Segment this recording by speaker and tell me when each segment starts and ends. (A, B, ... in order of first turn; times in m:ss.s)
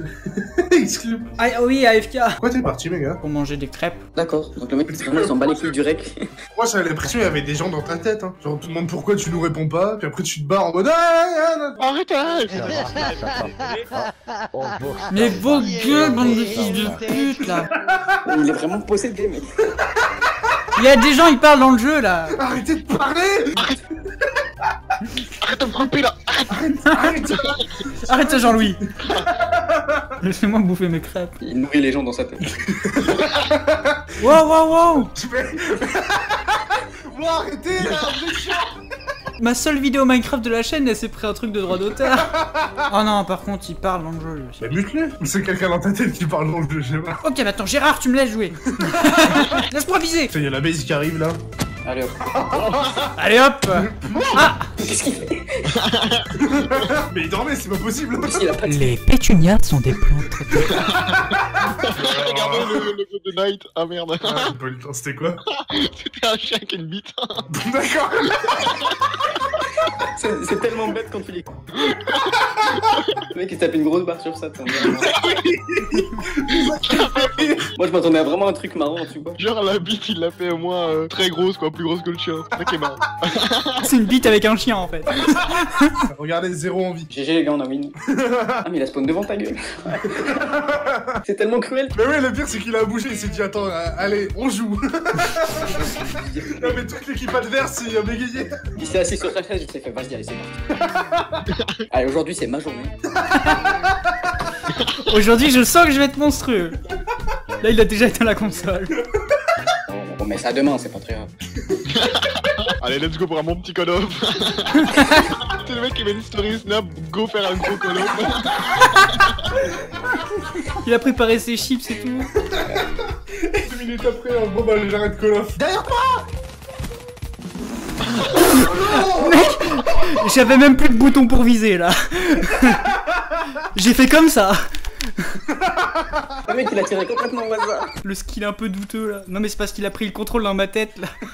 0:00.2-0:01.3 A
0:01.4-0:02.4 B
0:02.4-0:03.2 A
0:03.2-0:04.0 B
0:04.2-0:06.3 C
0:04.9-0:05.8 A
0:06.5-0:11.8 A
0:11.8-0:13.0 D
0:15.1-0:17.7 B
0:17.8-0:18.1 A
0:18.3-0:19.5 C
0:20.8-0:22.4 B
0:22.3-0:23.7 A
0:25.4-0:26.6 D
0:26.7-0:28.7 A
0:26.8-0:27.3 B
0:28.0-0:28.8 B
0:29.4-0:30.1 A
0:30.2-0:31.4 B
0:31.4-0:32.5 C
0:32.9-0:34.1 A
0:34.2-0:35.1 B
0:35.0-0:38.7 A
0:39.4-0:42.3 B
0:42.2-0:42.8 A
0:42.9-0:44.7 B
0:44.6-0:47.2 A
0:47.2-0:50.3 B
0:48.8-0:49.4 A
0:50.3-0:51.4 A
0:51.8-0:52.9 C
0:53.2-0:54.6 B
0:53.7-0:54.6 A
0:54.8-0:55.7 C
0:55.8-0:56.3 D
0:56.4-0:58.6 A
0:58.3-0:59.0 C
0:58.7-1:00.8 B
1:00.8-1:04.5 D
1:01.9-1:02.9 A
1:04.3-1:05.4 A
1:05.7-1:07.4 D
1:07.5-1:08.6 A
1:10.2-1:11.6 C
1:13.3-1:15.1 C
1:15.0-1:15.4 D
1:15.0-1:17.7 A
1:16.8-1:17.7 D
1:17.8-1:19.4 C
1:19.4-1:23.8 D
1:23.8-1:26.0 B
1:26.1-1:27.1 A
1:27.1-1:27.9 C
1:28.1-1:28.6 A
1:28.6-1:30.2 C
1:30.2-1:31.2 A
1:31.2-1:32.0 C
1:31.9-1:35.8 A
1:36.0-1:36.8 C
1:36.6-1:38.6 A
1:38.8-1:40.6 C
1:41.9-1:42.9 C
1:45.1-1:46.8 B
1:47.6-1:49.0 B
1:49.9-1:51.3 C
1:51.9-1:59.2 D
1:54.8-1:55.2 B
2:00.7-2:02.3 B
2:02.6-2:02.8 A
2:03.5-2:06.1 A
2:08.4-2:12.9 B
2:08.5-2:09.6 A
2:13.7-2:14.6 B
2:15.6-2:16.3 A
2:16.5-2:17.9 C
2:18.0-2:21.1 B